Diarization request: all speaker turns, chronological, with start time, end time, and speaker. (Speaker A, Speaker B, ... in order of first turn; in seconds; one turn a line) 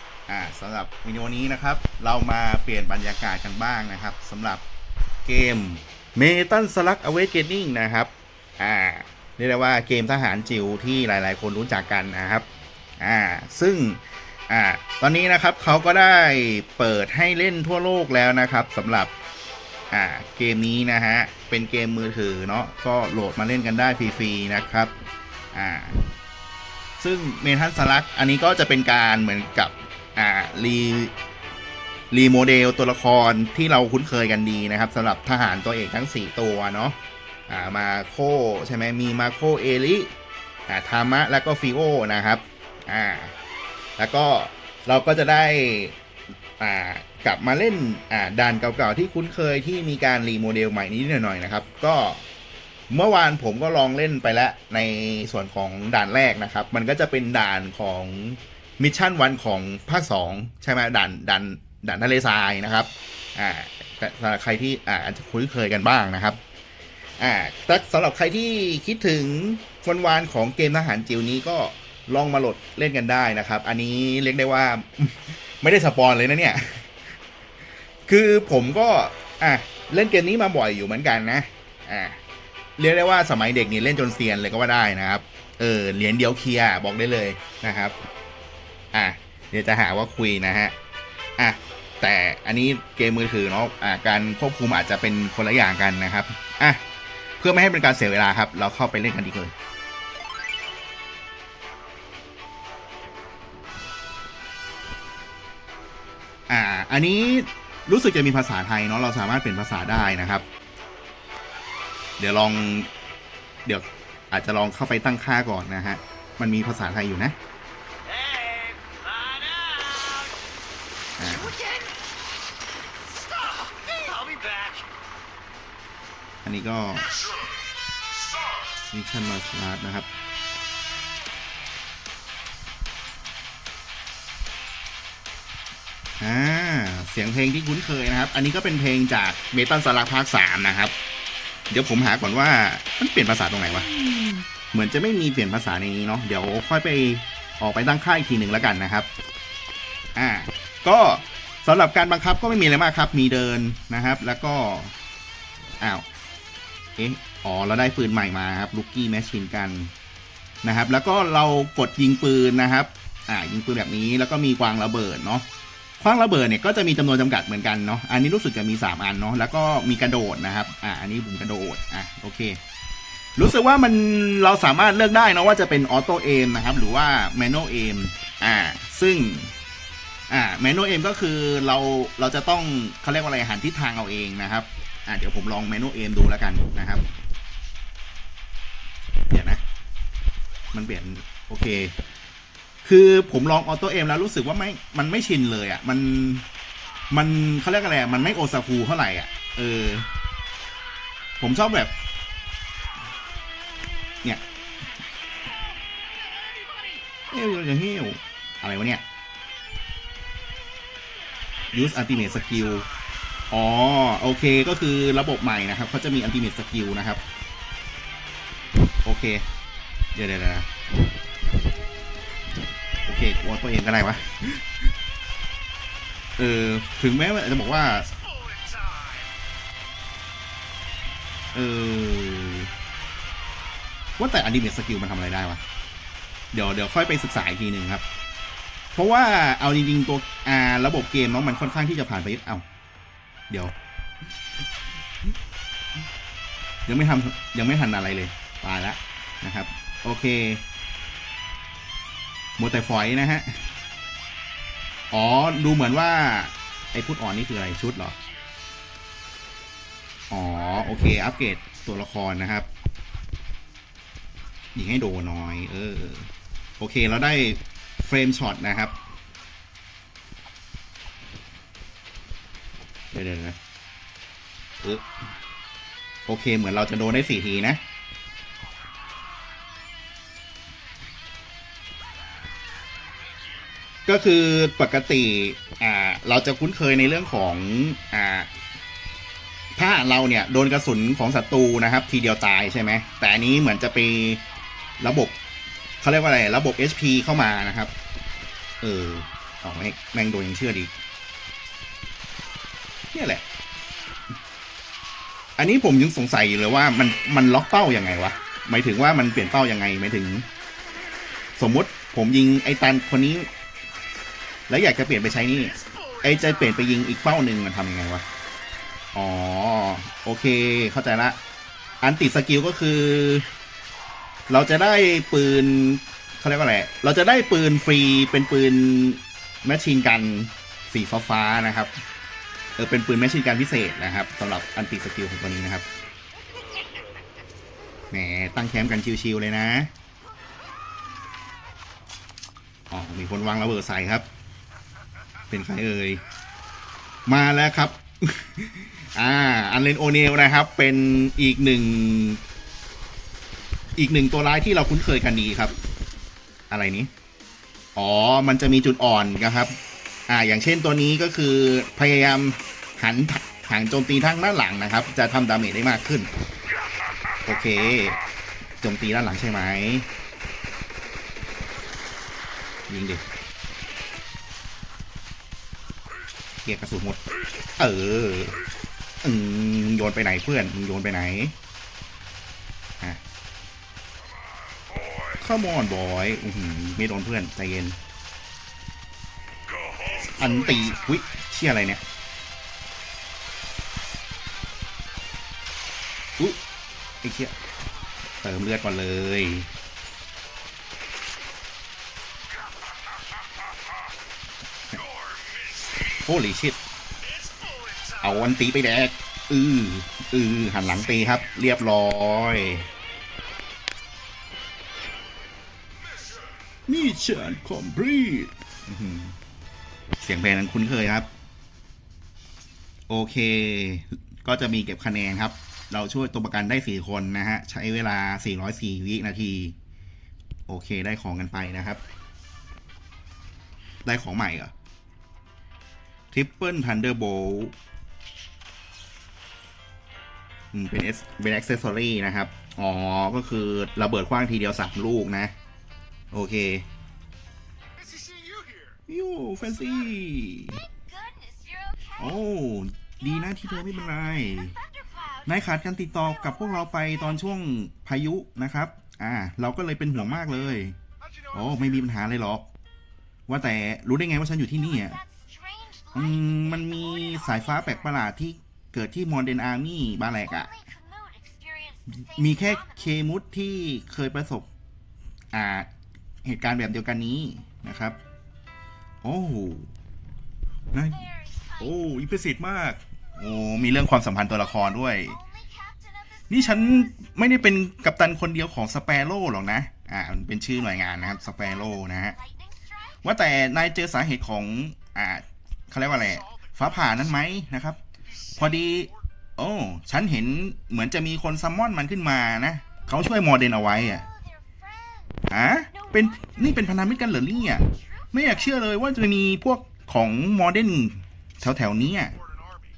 Speaker A: 0.3-4.6
Speaker A: 5.2-12.4
Speaker A: 13.0-19.1
Speaker A: 19.9-24.9
Speaker A: 25.5-26.0
Speaker A: 27.0-31.1
Speaker A: 32.1-37.0
Speaker A: 37.5-40.1
Speaker A: 40.7-43.3
Speaker A: 44.0-45.9
Speaker A: 46.6-52.2
Speaker A: 52.9-66.4
Speaker A: 67.2-76.9
Speaker A: 78.1-82.2
Speaker A: 82.8-87.9
Speaker A: 88.9-90.7
Speaker A: 91.4-96.8
Speaker A: 97.4-99.5
Speaker A: 106.5-110.4
Speaker A: 112.2-112.9
Speaker A: 113.6-117.4
Speaker B: 118.2-120.1
Speaker A: 121.2-121.5
Speaker B: 124.1-124.8
Speaker A: 126.4-127.1
Speaker A: 128.9-130.1
Speaker A: 136.2-140.9
Speaker A: 141.7-149.1
Speaker A: 150.2-154.9
Speaker A: 157.0-159.9
Speaker A: 160.6-165.4
Speaker A: 166.0-172.6
Speaker A: 173.3-179.5
Speaker A: 180.3-187.0
Speaker A: 189.3-189.6
Speaker A: 190.7-191.9
Speaker A: 192.8-196.4
Speaker A: 197.1-200.1
Speaker A: 201.4-201.9
Speaker A: 207.3-209.0
Speaker A: 211.7-212.9
Speaker A: 213.5-217.2
Speaker A: 219.0-219.4
Speaker A: 220.1-220.7
Speaker A: 223.1-224.7
Speaker A: 226.4-228.1
Speaker A: 231.5-232.7
Speaker A: 234.2-235.6
Speaker A: 236.5-238.0
Speaker A: 238.9-242.6
Speaker A: 246.9-250.6
Speaker A: 252.6-253.6
Speaker A: 255.1-258.2
Speaker A: 260.3-262.7
Speaker A: 264.7-268.9
Speaker A: 273.1-273.6
Speaker A: 276.3-277.8
Speaker A: 284.1-288.5
Speaker A: 289.8-294.4
Speaker A: 295.0-295.4
Speaker A: 296.0-297.9
Speaker A: 298.8-300.9
Speaker A: 303.1-303.4
Speaker A: 305.6-310.4
Speaker A: 311.6-313.5
Speaker A: 314.7-318.2
Speaker A: 319.1-321.4
Speaker A: 322.0-323.4
Speaker A: 324.5-331.9
Speaker A: 332.8-335.9
Speaker A: 338.1-339.9
Speaker A: 342.9-344.3
Speaker A: 345.5-346.2
Speaker A: 347.2-352.4
Speaker A: 354.0-355.7
Speaker A: 356.7-357.1
Speaker A: 357.9-359.8
Speaker A: 360.3-366.3
Speaker A: 367.4-368.2
Speaker A: 368.8-370.1
Speaker A: 372.9-373.2
Speaker A: 376.6-377.2
Speaker A: 377.8-378.6
Speaker A: 379.2-381.5
Speaker A: 385.4-388.0
Speaker A: 390.4-392.0
Speaker A: 397.2-397.5
Speaker A: 398.4-399.7
Speaker A: 406.2-406.8
Speaker A: 408.2-412.9
Speaker A: 416.9-419.3
Speaker A: 420.2-421.3
Speaker A: 423.1-429.7
Speaker A: 430.7-432.0
Speaker A: 434.0-434.7
Speaker A: 436.3-437.7
Speaker A: 440.7-445.5
Speaker A: 446.3-446.8
Speaker A: 449.1-450.8
Speaker C: 450.7-452.5
Speaker A: 452.2-454.7
Speaker C: 453.2-457.5
Speaker A: 455.4-460.9
Speaker A: 461.5-462.7
Speaker A: 463.5-465.2
Speaker C: 464.7-468.2
Speaker A: 466.1-470.7
Speaker C: 470.4-473.2
Speaker A: 472.1-474.7
Speaker A: 475.5-475.9
Speaker A: 476.4-478.2
Speaker A: 479.2-479.9
Speaker A: 480.9-481.2
Speaker C: 480.9-482.3
Speaker A: 481.8-485.4
Speaker C: 483.3-487.3
Speaker A: 486.5-492.4
Speaker C: 490.7-493.6
Speaker A: 493.2-498.0
Speaker A: 498.6-504.2
Speaker C: 503.7-508.9
Speaker A: 505.5-512.3